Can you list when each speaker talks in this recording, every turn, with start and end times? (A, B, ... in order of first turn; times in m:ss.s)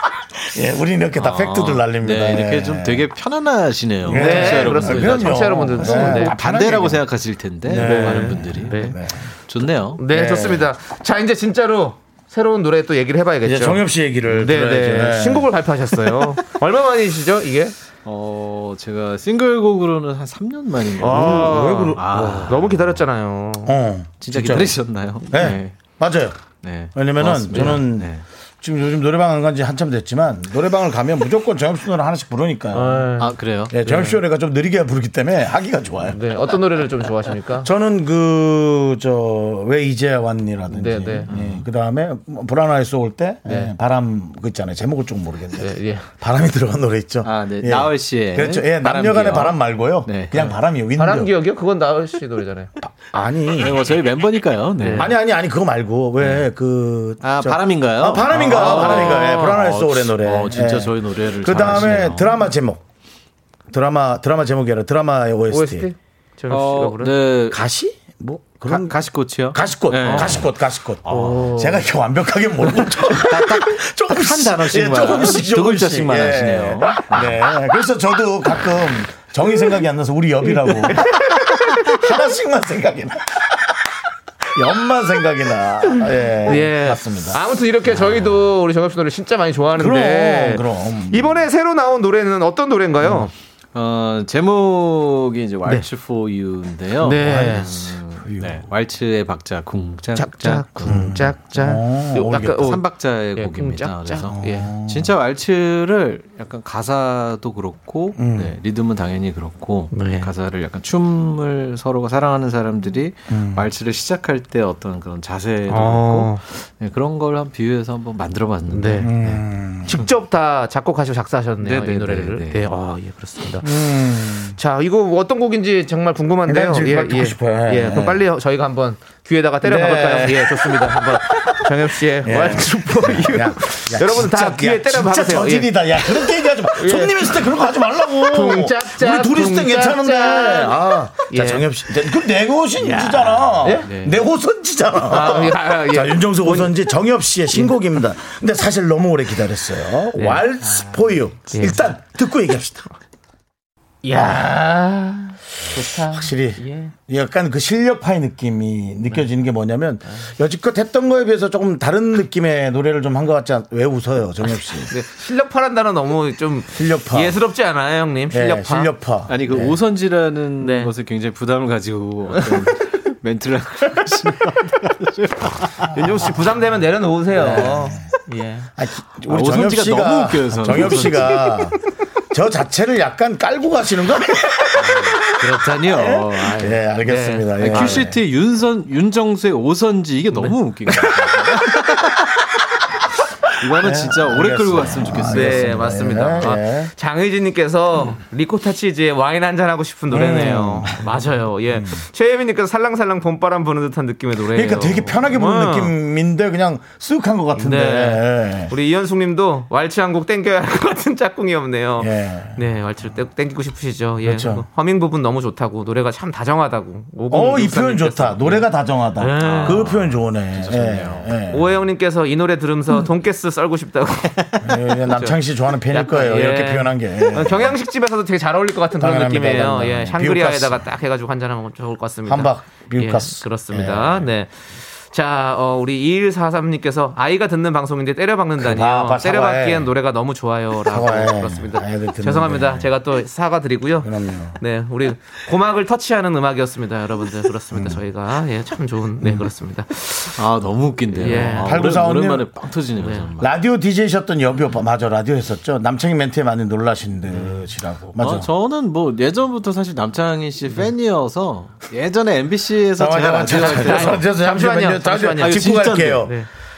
0:00.4-0:03.0 A
0:01.2-0:10.0 B
0:04.1-0:07.0 A
0:04.1-0:06.3 C
0:07.6-0:09.3 A
0:07.7-0:09.0 C
0:10.0-0:17.7 C
0:10.1-0:10.7 A
0:13.4-0:15.5 A
0:18.0-0:23.0 B
0:21.0-0:23.7 C
0:21.0-0:22.6 A
0:23.6-0:26.4 A
0:24.2-0:25.8 B
0:26.5-0:28.2 B
0:26.9-0:33.1 A
0:32.7-0:34.2 C
0:33.2-0:33.8 B
0:33.7-0:36.5 A
0:36.1-0:37.7 C
0:37.6-0:51.3 A
0:40.7-0:41.3 C
0:41.3-0:41.6 B
0:43.5-0:43.7 C
0:45.6-0:46.1 C
0:47.2-0:50.5 B
0:51.0-0:52.7 C
0:52.8-0:53.8 A
0:53.6-0:55.1 B
0:54.8-0:55.1 C
0:55.0-1:02.8 A
0:56.2-0:56.4 B
0:57.2-1:02.3 B
0:58.3-0:59.6 C
1:03.7-1:05.9 A
1:05.5-1:07.1 C
1:06.5-1:07.6 B
1:07.5-1:09.0 A
1:08.7-1:10.5 B
1:09.5-1:23.7 A
1:10.1-1:10.4 C
1:11.0-1:11.5 B
1:11.1-1:11.8 C
1:13.1-1:17.4 B
1:20.9-1:22.0 C
1:24.5-1:27.4 A
1:26.4-1:33.3 C
1:29.7-1:31.4 A
1:33.7-1:41.2 B
1:37.0-1:37.7 C
1:37.2-1:38.7 A
1:40.1-1:42.8 C
1:40.8-1:42.7 A
1:42.2-1:59.4 B
1:43.3-1:44.7 C
1:44.3-1:45.1 A
1:48.2-1:48.6 A
1:49.9-1:50.3 C
1:53.3-1:53.6 A
1:55.7-1:56.4 C
1:58.7-1:59.1 C
1:59.0-2:00.0 A
1:59.8-2:03.7 C
2:01.6-2:02.7 B
2:03.6-2:04.6 A
2:04.5-2:17.5 C
2:06.4-2:08.2 A
2:09.6-2:11.7 A
2:12.2-2:32.9 A
2:18.2-2:21.7 C
2:22.8-2:23.9 C
2:23.5-2:24.2 B
2:25.0-2:26.8 C
2:30.2-2:30.4 C
2:31.5-2:31.8 C
2:34.0-2:36.9 C
2:36.0-2:44.9 A
2:44.8-2:48.9 C
2:46.7-2:47.4 A
2:48.3-2:49.7 A
2:49.3-2:56.3 B
2:50.6-2:50.9 C
2:55.9-2:58.7 C
2:57.3-2:58.0 A
2:58.8-3:01.8 A
2:59.3-3:01.4 B
3:01.2-3:01.5 C
3:02.3-3:05.1 A
3:04.8-3:06.7 B
3:05.4-3:08.0 C
3:05.9-3:08.2 A
3:07.6-3:12.1 B
3:10.3-3:11.1 C
3:13.6-3:16.0 B
3:13.7-3:16.9 A
3:15.3-3:25.9 C
3:20.1-3:21.1 A
3:21.7-3:22.0 A
3:24.5-3:28.7 A
3:27.6-3:39.9 C
3:32.0-3:32.6 A
3:34.2-3:34.6 A
3:37.3-3:41.7 A
3:39.4-3:41.4 B
3:41.5-3:45.4 C
3:44.6-3:47.8 A
3:45.9-4:10.4 C
3:49.0-3:50.8 A
3:52.2-3:54.3 A
3:58.6-3:59.9 A
4:00.8-4:02.9 A
4:04.0-4:04.6 A
4:10.3-4:13.5 B
4:11.2-4:11.8 C
4:11.2-4:12.5 A
4:13.0-4:13.3 C
4:13.4-4:18.5 A
4:18.2-4:24.3 B
4:23.0-4:26.3 A
4:23.5-4:25.7 C
4:25.4-4:26.3 B
4:26.2-4:26.5 C